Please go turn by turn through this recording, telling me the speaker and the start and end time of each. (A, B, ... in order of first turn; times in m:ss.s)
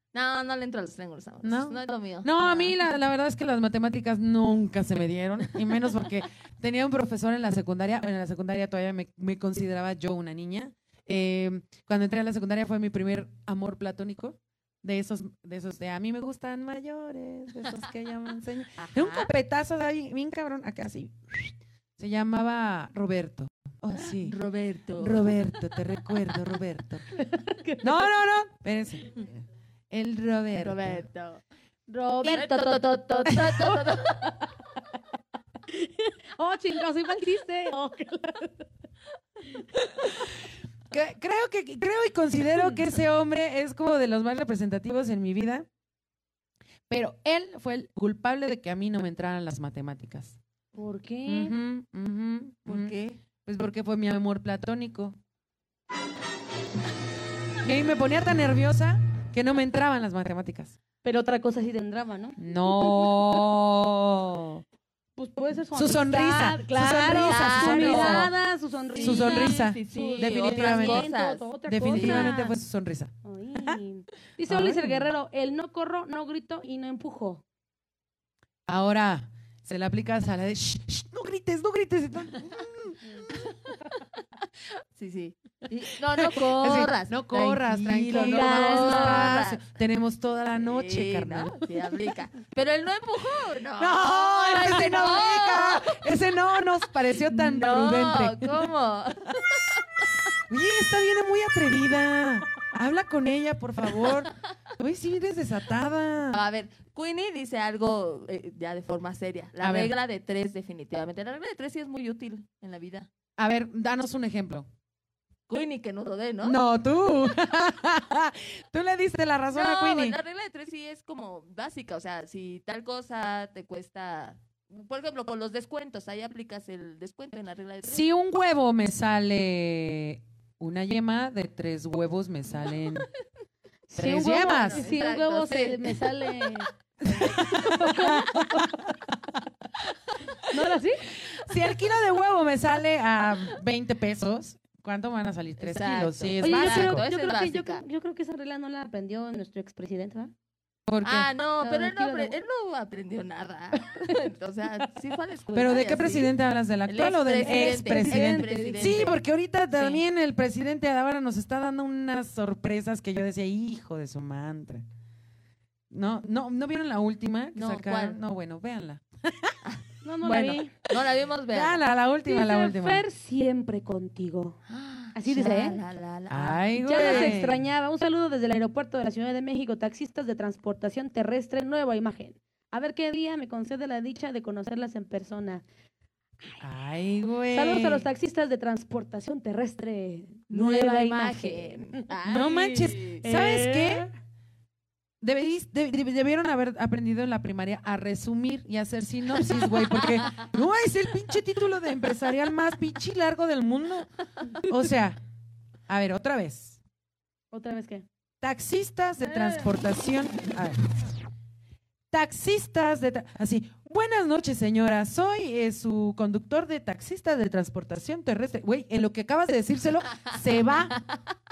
0:00.1-0:02.7 A
0:01.4-0:24.4 B
0:18.8-0:19.3 A
0:24.0-0:25.3 A
0:25.0-0:27.1 B
0:27.2-0:28.1 C
0:27.8-0:31.0 B
0:30.6-0:31.4 A
0:31.9-0:34.4 C
0:32.2-0:34.3 A
0:35.7-0:38.6 C
0:39.5-0:40.1 C
0:40.9-0:45.7 B
0:46.9-0:50.4 B
0:50.7-0:51.5 C
0:51.2-0:55.2 B
0:52.6-0:53.2 A
0:57.6-1:00.8 B
1:01.0-1:03.3 C
1:02.4-1:04.6 B
1:05.2-1:12.5 C
1:05.7-1:08.3 B
1:07.2-1:08.3 A
1:08.9-1:12.4 A
1:09.0-1:11.1 B
1:11.7-1:13.8 B
1:13.2-1:17.4 C
1:14.5-1:15.1 B
1:18.7-1:23.0 B
1:24.9-1:29.6 A
1:26.1-1:31.6 B
1:28.1-1:29.4 C
1:30.6-1:36.0 A
1:33.8-1:38.7 B
1:37.2-1:39.8 A
1:40.4-1:46.4 B
1:46.3-1:53.1 A
1:49.6-1:49.9 B
1:53.4-1:54.7 B
1:55.5-1:56.6 A
1:56.4-2:00.2 B
1:59.5-2:08.1 A
2:07.8-2:13.1 B
2:13.9-2:18.8 C
2:14.0-2:14.9 B
2:14.5-2:15.9 A
2:17.0-2:18.9 B
2:20.5-2:21.1 C
2:21.3-2:27.0 B
2:25.6-2:27.8 A
2:26.4-2:30.3 C
2:30.9-2:31.3 B
2:31.0-2:36.3 A
2:31.6-2:32.4 C
2:33.9-2:34.2 C
2:35.5-2:44.8 B
2:36.8-2:39.2 A
2:37.4-2:39.1 C
2:39.7-2:40.0 A
2:45.9-2:49.6 B
2:47.5-2:48.2 A
2:49.6-2:51.8 A
2:50.0-2:50.7 C
2:50.2-2:50.6 B
2:51.5-2:53.0 B
2:52.3-2:54.6 C
2:54.7-2:57.4 A
2:55.1-2:55.8 C
2:56.3-2:57.7 B
2:56.8-3:05.6 C
3:06.6-3:08.1 B
3:07.5-3:12.1 C
3:10.5-3:13.2 A
3:12.2-3:14.1 B
3:13.2-3:14.1 C
3:15.2-3:25.2 B
3:25.9-3:26.8 B
3:27.5-3:28.0 C
3:28.4-3:30.8 B
3:29.3-3:29.6 C
3:32.1-3:41.0 B